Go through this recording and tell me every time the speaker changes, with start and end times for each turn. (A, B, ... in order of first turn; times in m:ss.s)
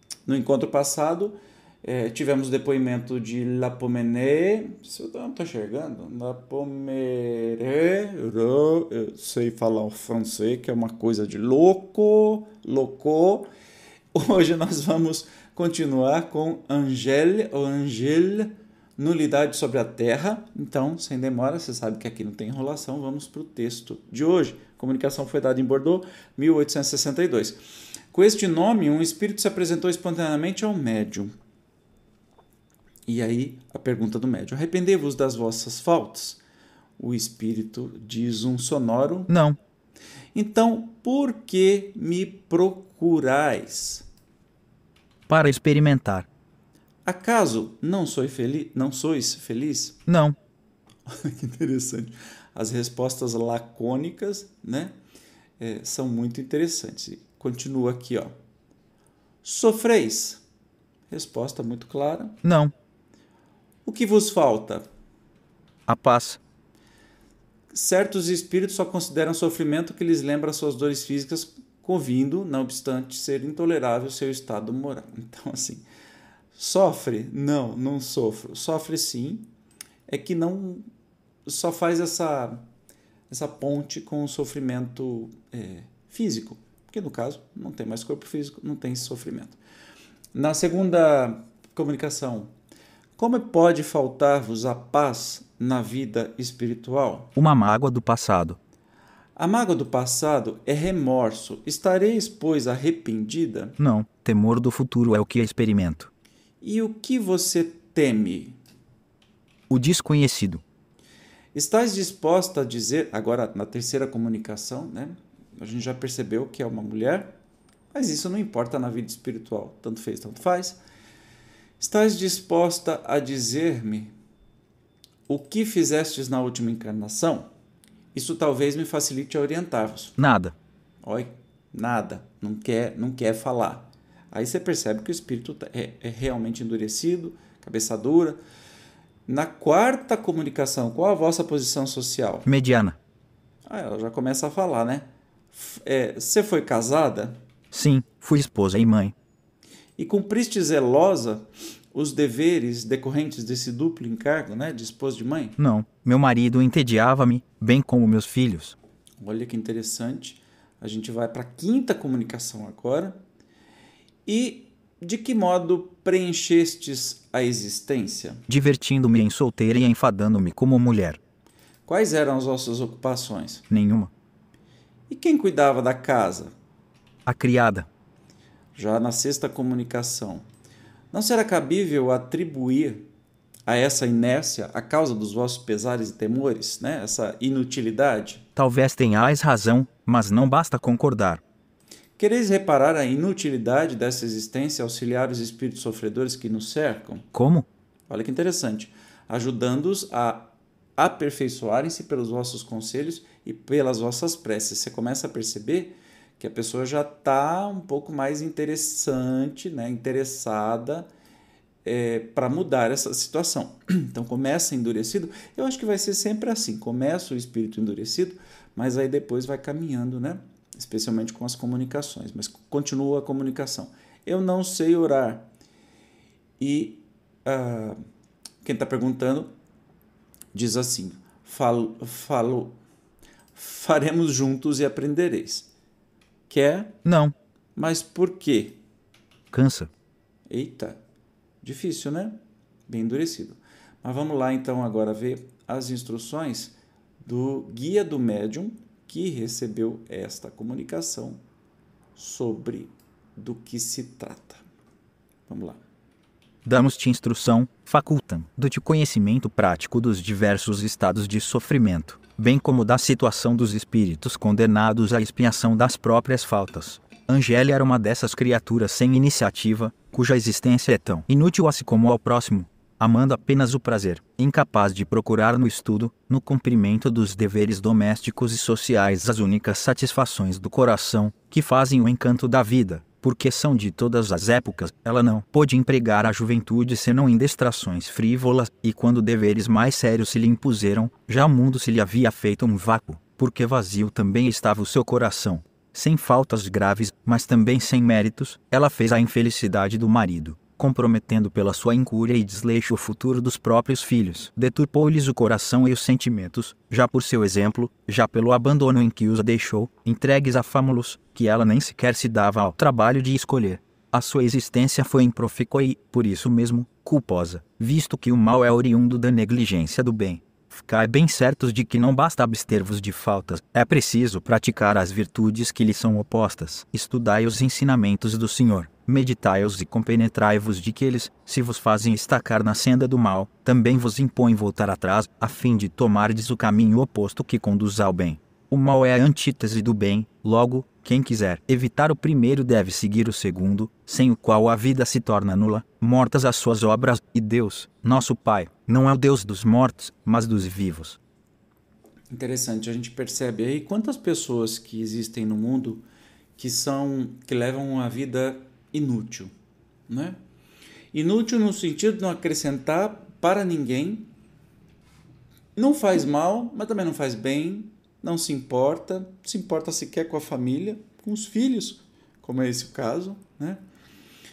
0:00.2-0:13.5 A
0:14.1-0:27.6 A
0:28.1-0:31.3 A
0:33.1-0:36.4 A
0:37.0-0:39.3 A
0:39.3-0:39.6 B
0:40.3-0:44.1 A
0:45.3-0:46.3 B
0:47.0-0:50.0 A
0:50.1-0:50.4 B
0:51.0-0:54.9 A
0:55.6-0:58.3 A
0:59.4-1:00.4 A
1:01.1-1:02.4 A
1:02.4-1:02.7 B
1:03.8-1:04.8 A
1:05.9-1:06.4 B
1:07.7-1:15.8 A
1:16.5-1:19.4 A
1:20.1-1:20.8 A
1:21.4-1:22.6 A
1:23.3-1:29.6 A
1:30.3-1:32.5 A
1:33.2-1:37.3 A
1:37.4-1:38.6 B
1:39.4-1:43.8 A
1:43.8-1:46.1 B
1:46.6-1:48.6 A
1:49.7-1:50.6 B
1:51.5-1:57.3 A
1:57.9-2:00.8 A
2:01.8-2:04.1 A
2:05.3-2:07.5 A
2:08.1-2:10.2 A
2:10.2-2:10.6 B
2:11.0-2:18.4 A
2:19.2-2:22.5 A
2:22.4-2:23.0 B
2:23.6-2:27.4 A
2:27.7-2:29.1 B
2:30.0-2:35.6 A
2:35.6-2:38.8 B
2:39.2-2:43.2 A
2:44.2-2:48.4 A
2:48.5-2:51.2 B
2:51.8-2:53.6 A
2:53.7-2:54.1 B
2:55.1-2:56.5 A
2:57.2-2:57.9 B
2:58.7-3:00.4 A
3:01.1-3:03.1 A
3:03.7-3:08.4 A
3:08.6-3:11.4 B
3:12.2-3:17.3 A
3:17.3-3:17.7 B
3:18.1-3:31.1 A
3:31.8-3:45.5 A
3:46.6-3:48.0 A
3:48.6-3:49.5 A
3:50.5-3:52.8 A
3:53.5-3:55.7 A
3:56.5-3:57.0 A
3:57.0-3:57.3 B
3:57.8-3:58.8 A
3:59.5-3:59.9 B
4:00.5-4:01.0 A
4:01.6-4:11.4 A
4:12.1-4:14.6 A
4:15.5-4:15.8 A
4:16.6-5:51.2 B
5:52.3-5:56.0 A
5:56.6-5:59.5 A
6:00.1-6:00.4 A
6:01.1-6:04.3 A
6:05.8-6:13.8 A